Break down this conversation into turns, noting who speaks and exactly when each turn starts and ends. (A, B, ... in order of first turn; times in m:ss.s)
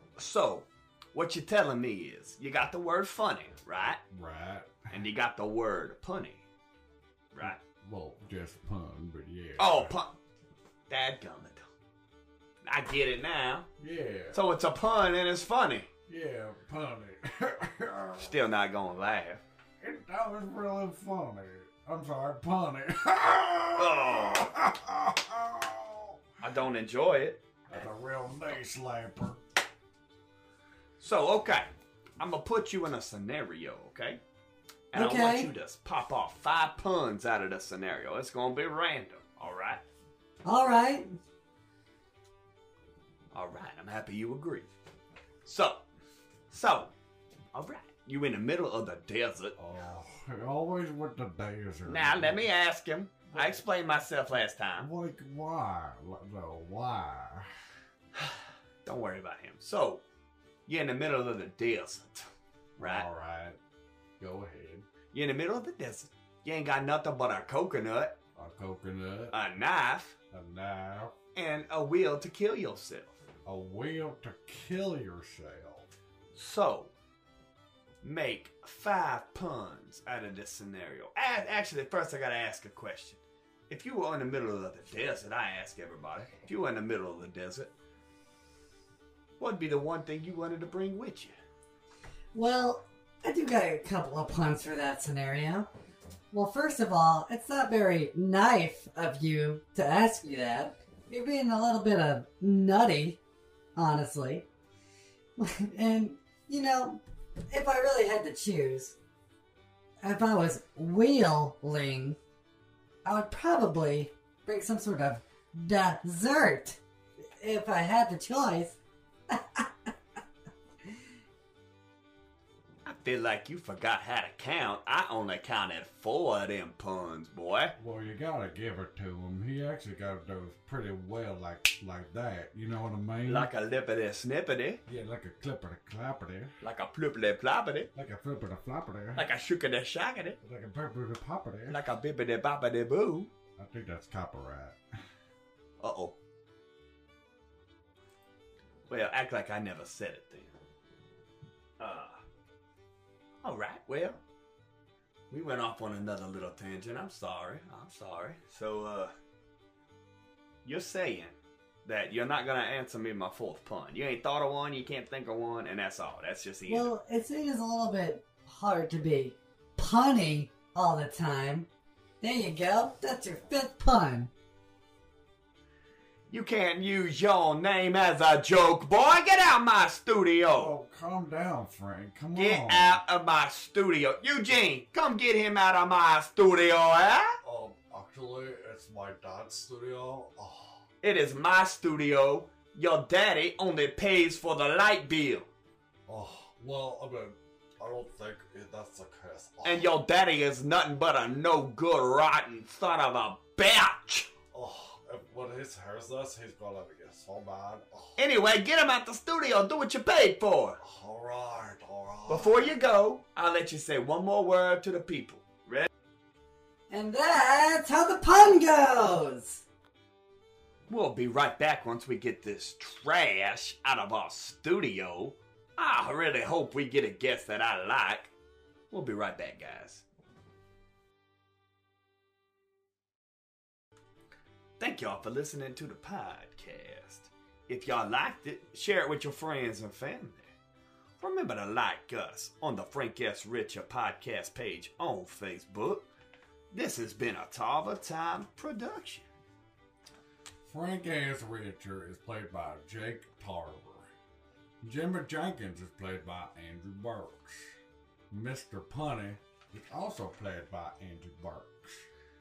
0:00.2-0:04.0 A
0:04.0-0:04.9 B
0:04.9-0:06.4 A
0:07.3-0:07.6 A
0:07.4-0:09.9 B
0:09.6-0:10.2 A
0:10.9-0:11.6 A
0:12.6-0:13.7 A
0:13.8-0:14.4 B
0:14.3-0:15.9 A
0:16.1-0:18.3 B
0:18.2-0:19.4 A
0:19.8-0:26.2 B
0:23.8-0:24.5 A
0:26.4-0:27.4 A
0:27.7-0:29.4 B
0:31.0-0:34.2 A
0:34.9-0:39.8 A
0:34.9-0:35.5 C
0:40.4-0:41.1 C
0:43.3-0:44.7 A
0:45.4-0:45.8 A
0:46.5-0:46.9 A
0:47.5-0:49.5 A
0:49.6-0:52.5 B
0:51.9-0:54.9 A
0:53.3-0:53.6 B
0:54.8-0:57.5 B
0:58.8-1:00.0 A
1:00.7-1:03.0 A
1:02.8-1:03.6 B
1:04.2-1:04.9 B
1:05.1-1:08.2 A
1:08.3-1:09.3 B
1:09.3-1:10.2 A
1:10.3-1:11.1 B
1:11.3-1:13.2 A
1:13.4-1:15.9 B
1:16.3-1:16.9 A
1:18.0-1:27.7 A
1:29.4-1:31.3 A
1:32.3-1:35.7 C
1:36.3-1:43.2 C
1:43.8-1:44.4 C
1:45.4-1:49.0 C
1:50.0-1:52.2 C
1:53.0-1:56.8 C
1:57.4-1:58.8 C
1:59.3-1:59.9 C
2:02.8-2:07.7 A
2:07.8-2:13.5 B
2:13.3-2:14.8 A
2:14.8-2:16.6 B
2:16.6-2:17.9 A
2:17.9-2:19.2 B
2:19.2-2:20.4 A
2:20.4-2:21.8 B
2:21.7-2:23.3 A
2:23.6-2:24.8 B
2:25.8-2:26.1 A
2:28.9-2:30.5 A
2:31.8-2:32.2 A
2:33.4-2:34.2 A
2:35.3-2:39.1 A
2:40.6-2:46.9 A
2:46.7-2:51.7 C
2:52.2-2:54.3 C
2:56.3-3:00.7 A
3:00.5-3:03.0 B
3:02.4-3:07.4 A
3:07.4-3:10.8 B
3:11.0-3:15.5 A
3:16.1-3:19.9 B
3:19.6-3:24.3 A
3:24.5-3:28.2 B
3:28.2-3:30.8 A
3:30.8-3:32.8 B
3:32.3-3:35.9 A
3:36.9-3:39.6 C
3:40.9-3:48.3 A
3:48.9-3:50.0 A
3:54.8-4:00.5 A
4:01.2-4:06.0 A
4:06.7-4:09.2 A
4:10.6-4:14.1 B
4:14.8-4:17.7 B
4:18.3-4:22.0 B